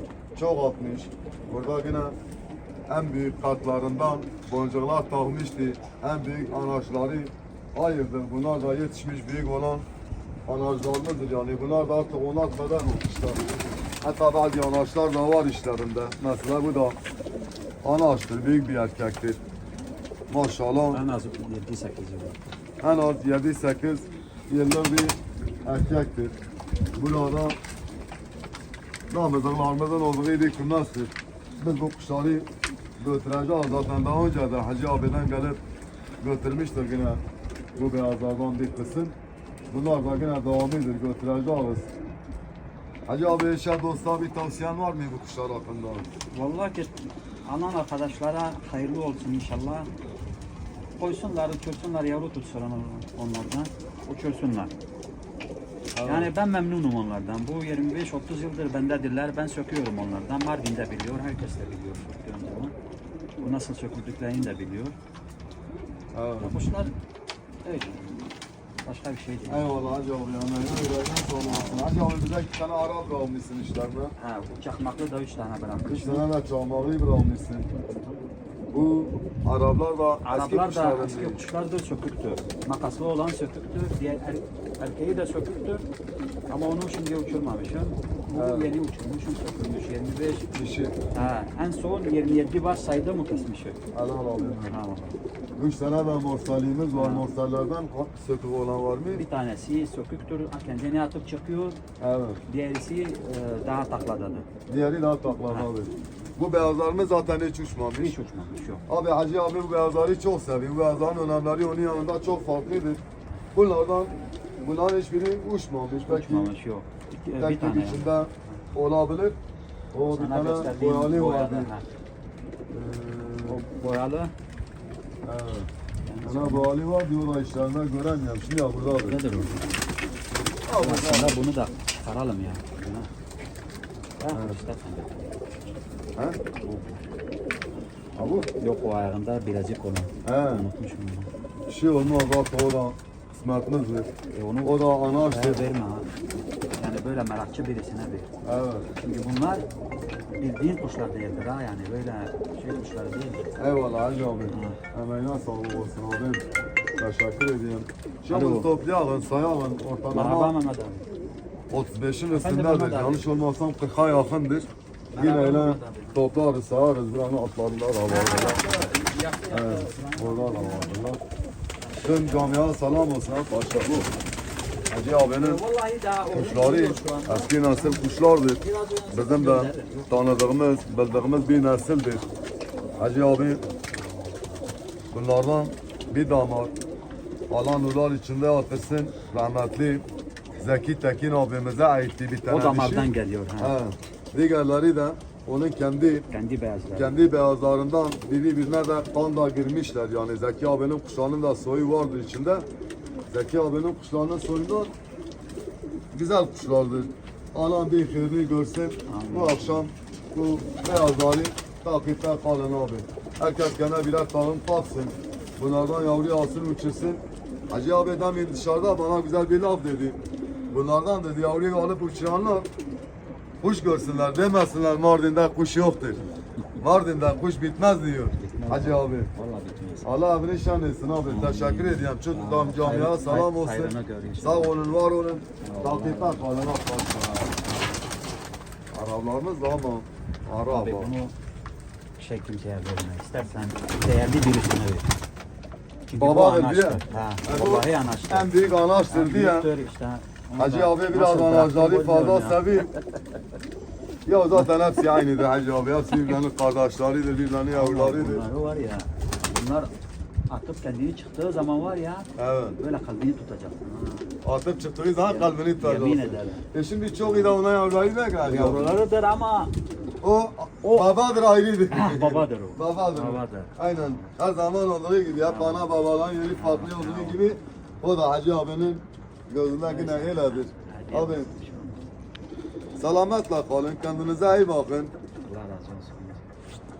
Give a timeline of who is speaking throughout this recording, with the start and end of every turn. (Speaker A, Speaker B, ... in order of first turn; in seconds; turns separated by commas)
Speaker A: 0.3-2.1, Speaker A: 2.9-9.8, Speaker A: 10.5-13.4, Speaker A: 14.0-16.9, Speaker A: 17.8-19.4, Speaker A: 20.3-21.0, Speaker B: 20.9-22.4, Speaker A: 22.8-26.3, Speaker A: 26.9-27.6, Speaker A: 29.1-32.5, Speaker A: 33.0-35.6, Speaker A: 36.2-37.2, Speaker A: 37.8-39.1, Speaker A: 39.7-41.9, Speaker A: 43.1-46.1, Speaker B: 46.3-49.9, Speaker B: 51.0-54.7, Speaker A: 55.9-56.3, Speaker B: 56.0-62.7, Speaker B: 63.4-65.0, Speaker A: 66.1-66.5, Speaker B: 66.4-66.9, Speaker B: 67.6-69.7, Speaker A: 69.5-74.1, Speaker B: 71.4-71.9, Speaker B: 74.2-76.2, Speaker A: 75.9-77.7, Speaker B: 77.9-78.2, Speaker A: 78.7-81.4, Speaker B: 80.2-85.8, Speaker B: 86.5-90.5, Speaker A: 88.3-88.7, Speaker A: 90.5-91.0, Speaker B: 91.1-93.8, Speaker A: 93.9-94.8, Speaker B: 94.6-95.2, Speaker A: 95.6-99.2, Speaker B: 96.9-97.3, Speaker B: 99.1-101.8, Speaker A: 102.0-102.4, Speaker B: 102.5-104.5, Speaker A: 104.7-108.1, Speaker B: 108.0-108.8, Speaker A: 108.9-113.0, Speaker A: 113.5-116.5, Speaker B: 116.0-118.6, Speaker A: 117.3-119.3, Speaker A: 119.9-121.7, Speaker B: 120.1-121.8, Speaker A: 122.7-123.6, Speaker B: 123.5-124.3, Speaker A: 125.2-125.7, Speaker B: 126.0-126.7, Speaker A: 126.2-129.2, Speaker B: 128.9-129.8, Speaker A: 130.6-131.4, Speaker B: 130.7-133.1, Speaker B: 134.2-135.3, Speaker A: 134.3-134.6, Speaker B: 136.6-137.0, Speaker A: 138.2-138.5, Speaker B: 138.4-141.3, Speaker A: 140.2-140.7, Speaker A: 141.7-144.1, Speaker B: 144.3-146.2, Speaker A: 144.6-145.7, Speaker B: 146.8-148.4, Speaker A: 148.4-148.9, Speaker B: 149.0-149.7, Speaker B: 150.4-153.5, Speaker A: 153.6-156.4, Speaker B: 154.5-154.8, Speaker A: 157.0-160.5, Speaker B: 158.3-158.7, Speaker B: 160.1-161.1, Speaker A: 161.7-168.7, Speaker B: 162.3-163.3, Speaker B: 165.1-166.2, Speaker B: 168.1-171.0, Speaker A: 169.5-171.2, Speaker B: 171.8-172.8, Speaker A: 172.0-174.1, Speaker A: 174.9-175.6, Speaker B: 175.0-178.1, Speaker A: 176.3-182.2, Speaker B: 178.6-184.7, Speaker A: 183.0-183.6, Speaker A: 185.1-186.7, Speaker A: 187.5-190.0, Speaker A: 190.6-196.3, Speaker B: 192.5-193.8, Speaker B: 196.3-197.2, Speaker A: 196.9-202.6, Speaker A: 203.3-204.9, Speaker A: 206.1-222.7, Speaker B: 209.1-209.9, Speaker A: 223.6-226.2, Speaker A: 226.8-229.3, Speaker B: 228.4-230.1, Speaker A: 230.0-237.6, Speaker B: 231.2-234.8, Speaker B: 235.6-236.7, Speaker A: 238.9-241.1, Speaker B: 240.7-241.3, Speaker B: 242.2-245.1, Speaker B: 246.1-253.4, Speaker A: 246.1-249.7, Speaker A: 250.6-252.9, Speaker A: 254.2-258.4, Speaker B: 257.7-259.9, Speaker B: 260.5-264.3, Speaker A: 262.4-262.8, Speaker A: 264.4-268.9, Speaker B: 265.2-267.6, Speaker B: 268.4-269.8, Speaker A: 270.2-281.5, Speaker B: 270.8-271.1, Speaker B: 271.9-274.3, Speaker B: 275.4-275.9, Speaker B: 276.5-277.5, Speaker B: 279.8-282.1, Speaker A: 283.0-285.1, Speaker B: 285.4-286.5